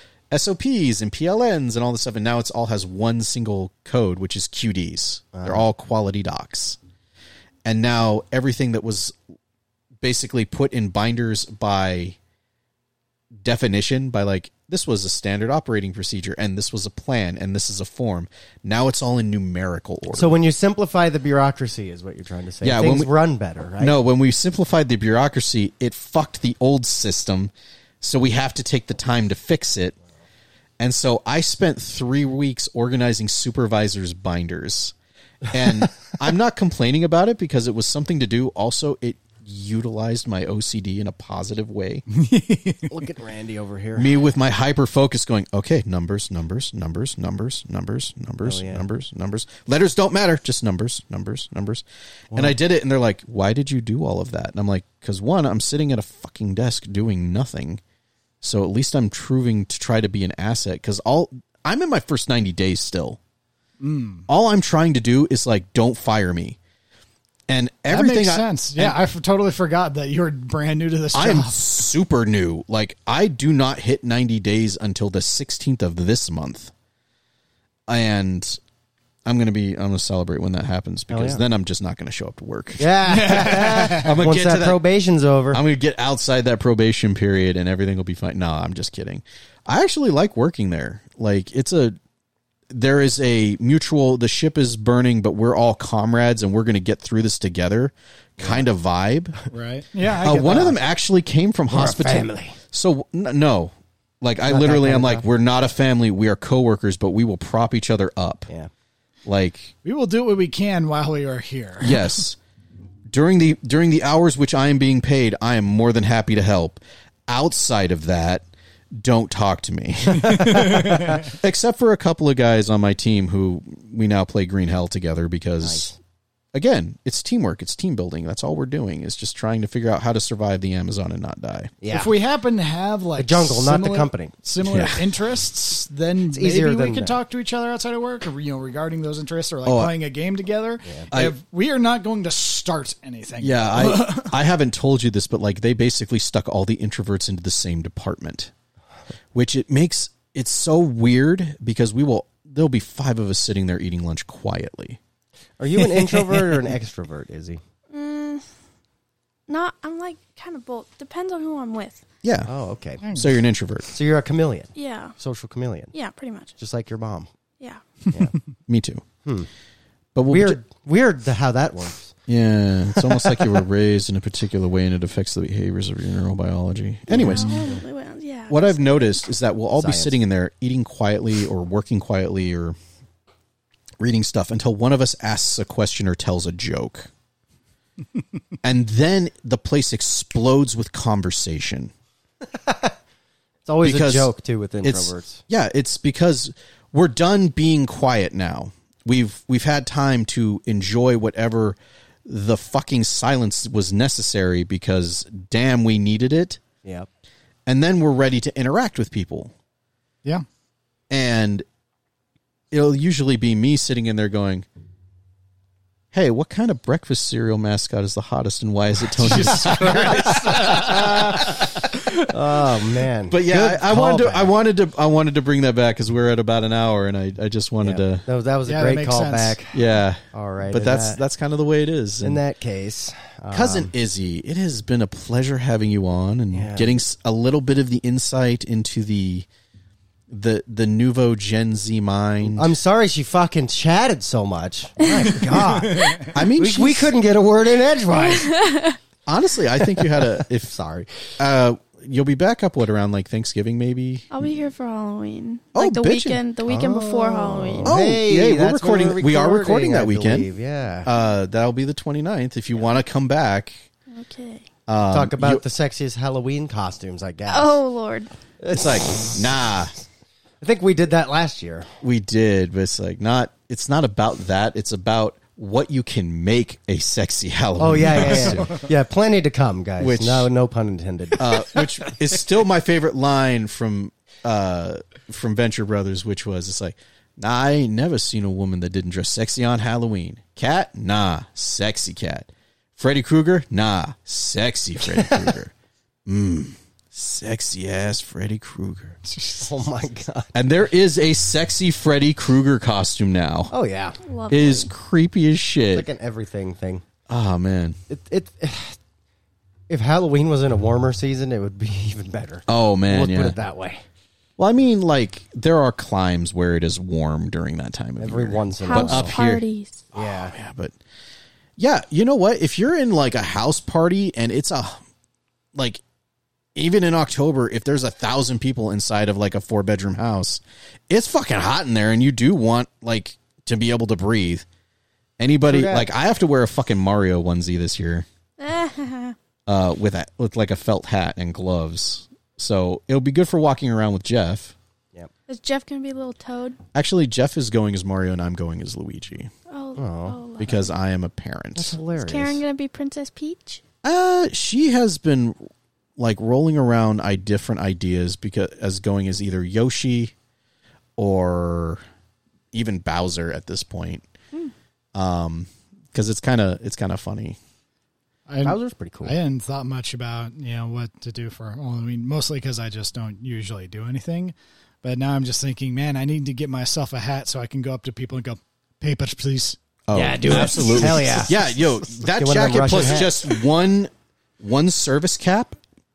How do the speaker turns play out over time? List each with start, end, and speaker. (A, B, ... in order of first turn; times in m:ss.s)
0:00.3-0:06.8 A
0:05.3-0:05.6 B
0:07.6-0:09.2 A
0:10.0-0:12.2 A
0:13.4-0:20.4 A
0:20.1-0:24.0 B
0:22.6-0:23.1 A
0:23.8-0:30.0 A
0:30.8-0:35.0 A
0:35.5-0:42.1 A
0:42.2-0:42.9 C
0:42.9-0:44.2 B
0:44.0-0:57.8 A
0:48.4-0:48.8 B
0:58.4-1:03.2 A
1:03.8-1:04.3 C
1:04.3-1:06.6 A
1:07.5-1:09.0 A
1:07.9-1:11.7 C
1:11.1-1:16.7 A
1:17.9-1:18.6 A
1:19.2-1:24.8 A
1:21.1-1:21.4 B
1:22.8-1:25.6 B
1:23.1-1:24.1 C
1:25.5-1:32.0 A
1:32.7-1:39.4 A
1:38.4-1:38.7 B
1:39.5-1:40.8 C
1:40.2-1:48.5 A
1:40.3-1:40.8 B
1:41.7-1:42.6 B
1:44.5-1:45.3 B
1:49.2-1:49.7 A
1:49.8-1:52.2 C
1:51.8-1:52.4 A
1:53.1-2:06.0 A
2:00.2-2:01.3 C
2:05.6-2:05.9 B
2:06.5-2:11.8 A
2:11.8-2:12.1 B
2:11.9-2:24.4 C
2:13.2-2:14.3 B
2:14.6-2:15.1 A
2:16.3-2:17.2 B
2:19.6-2:19.9 A
2:23.4-2:28.5 A
2:29.3-2:35.0 A
2:35.6-2:37.6 B
2:35.8-2:36.6 A
2:37.9-2:38.4 D
2:39.5-2:42.0 D
2:42.2-2:42.5 A
2:42.5-2:43.0 B
2:43.0-2:43.4 C
2:43.2-2:43.9 A
2:43.9-2:45.9 B
2:44.8-2:45.1 D
2:45.9-2:46.6 D
2:46.6-2:47.3 B
2:48.7-2:49.0 A
2:50.2-2:50.6 A
2:50.3-2:52.2 B
2:52.3-2:57.7 A
2:53.0-2:53.5 B
2:57.1-2:57.8 B
2:57.1-2:59.2 D
2:58.5-3:02.8 A
2:59.8-3:00.1 B
3:04.0-3:07.1 A
3:08.6-3:11.9 A
3:12.5-3:13.0 B
3:13.7-3:15.4 B
3:13.8-3:14.3 A
3:14.8-3:26.6 A
3:27.7-3:29.5 A
3:31.1-3:31.6 A
3:32.7-3:34.7 A
3:36.1-3:42.2 A
3:39.1-3:41.0 C
3:39.8-3:41.7 B
3:42.3-3:44.5 B
3:43.3-3:48.2 A
3:47.8-3:51.2 B
3:48.7-3:49.6 C
3:49.7-3:52.4 A
3:52.2-3:53.9 B
3:53.5-3:59.5 A
3:56.5-3:56.9 B
4:00.3-4:02.7 A
4:02.4-4:08.6 B
4:05.0-4:05.4 D
4:05.7-4:06.3 C
4:06.3-4:07.1 A
4:08.2-4:09.0 D
4:09.3-4:10.7 A
4:10.7-4:11.4 B
4:11.4-4:14.3 A
4:14.3-4:18.0 D
4:15.8-4:16.4 A
4:16.7-4:21.1 B
4:17.8-4:20.5 A
4:21.0-4:23.8 A
4:24.1-4:24.7 D
4:24.9-4:25.6 A
4:25.1-4:27.8 B
4:27.5-4:28.3 D
4:28.6-4:29.3 B
4:28.7-4:29.9 A
4:30.6-4:31.9 B
4:32.0-4:38.8 A
4:37.8-4:41.8 B
4:40.0-4:40.5 A
4:41.4-4:55.7 A
4:55.1-4:55.4 B
4:56.3-4:59.2 A
4:59.3-4:59.6 C
4:59.6-5:00.6 B
5:00.5-5:03.7 A
5:03.7-5:04.2 B
5:04.2-5:04.9 D
5:04.5-5:06.1 A
5:05.9-5:07.0 B
5:07.3-5:08.0 A
5:08.1-5:09.0 B
5:09.9-5:14.0 B
5:12.7-5:13.6 A
5:14.6-5:19.6 A
5:18.2-5:19.4 B
5:18.8-5:20.0 D
5:20.1-5:20.5 B
5:20.2-5:21.0 A
5:21.8-5:25.0 A
5:25.7-5:26.0 A
5:26.8-5:34.6 A
5:35.4-5:38.3 A
5:35.7-5:36.1 B
5:38.6-5:39.4 D
5:39.7-5:44.8 A
5:45.5-5:46.8 D
5:47.0-5:49.5 A
5:49.7-5:50.9 D
5:50.0-5:50.4 B
5:50.6-5:52.0 A
5:51.8-5:52.6 B
5:52.2-5:53.8 D
5:54.0-5:55.6 A
5:56.2-6:00.3 A
6:01.2-6:02.0 A
6:02.7-6:04.2 A
6:05.2-6:07.6 A
6:08.5-6:21.5 C
6:08.6-6:09.4 B
6:20.1-6:25.8 A
6:20.1-6:21.5 B
6:22.2-6:23.4 B